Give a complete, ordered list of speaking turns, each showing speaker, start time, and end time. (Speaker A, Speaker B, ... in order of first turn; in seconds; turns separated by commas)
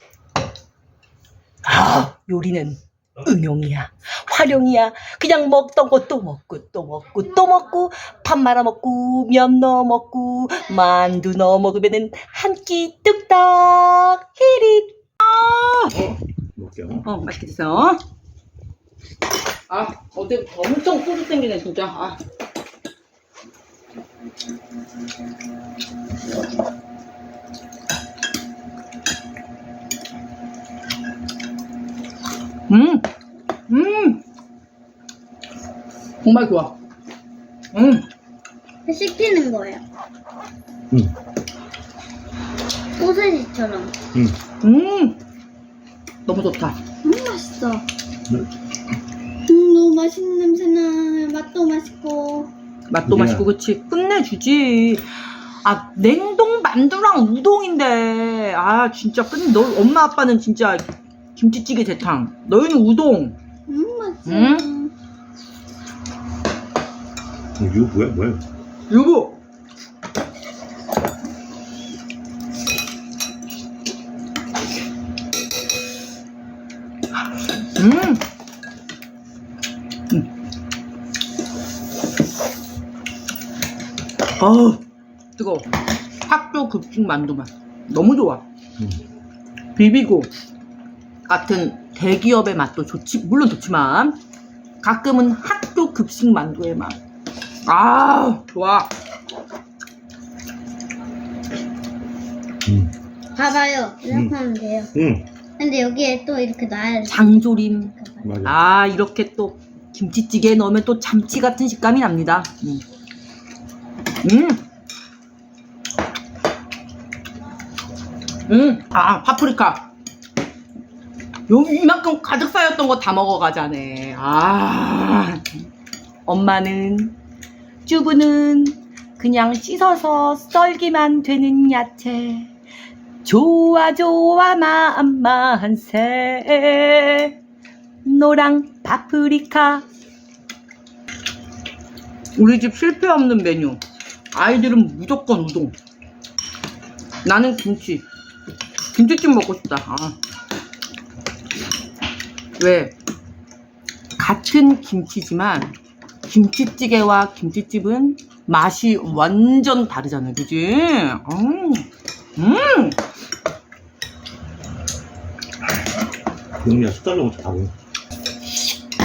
Speaker A: 1.6-16.0, Speaker B: 7.3-7.7, Speaker C: 15.9-17.1, Speaker A: 17.0-18.0, Speaker A: 19.7-22.2, Speaker A: 32.7-33.0, Speaker A: 33.7-34.2, Speaker A: 36.3-36.7, Speaker B: 38.9-39.8, Speaker B: 43.0-43.9, Speaker A: 44.7-45.2, Speaker A: 46.3-46.7, Speaker B: 47.0-47.9, Speaker B: 49.5-52.5, Speaker A: 52.9-55.1, Speaker C: 53.0-53.5, Speaker A: 55.6-60.9, Speaker A: 61.4-63.4, Speaker B: 63.7-64.9, Speaker A: 64.3-64.7, Speaker C: 67.6-68.4, Speaker A: 68.9-69.4, Speaker A: 77.8-78.2, Speaker A: 84.4-84.8, Speaker A: 85.4-85.7, Speaker A: 86.3-88.4, Speaker A: 89.8-90.3, Speaker A: 91.3-94.2, Speaker A: 94.8-97.0, Speaker A: 97.7-98.9, Speaker C: 102.7-102.9, Speaker B: 103.4-104.9, Speaker C: 105.0-105.3, Speaker B: 105.6-108.3, Speaker A: 107.1-107.9, Speaker C: 108.2-108.5, Speaker A: 108.5-112.8, Speaker A: 114.2-114.6, Speaker A: 118.5-119.9, Speaker A: 121.5-125.5, Speaker A: 126.3-127.2, Speaker A: 127.9-132.5, Speaker A: 133.2-137.3, Speaker A: 138.1-139.8, Speaker A: 142.4-143.8, Speaker A: 144.3-145.7, Speaker A: 147.2-148.0, Speaker A: 148.9-150.2, Speaker A: 152.6-152.9, Speaker A: 154.2-155.8, Speaker A: 156.3-161.8, Speaker A: 162.4-163.0, Speaker C: 166.6-167.7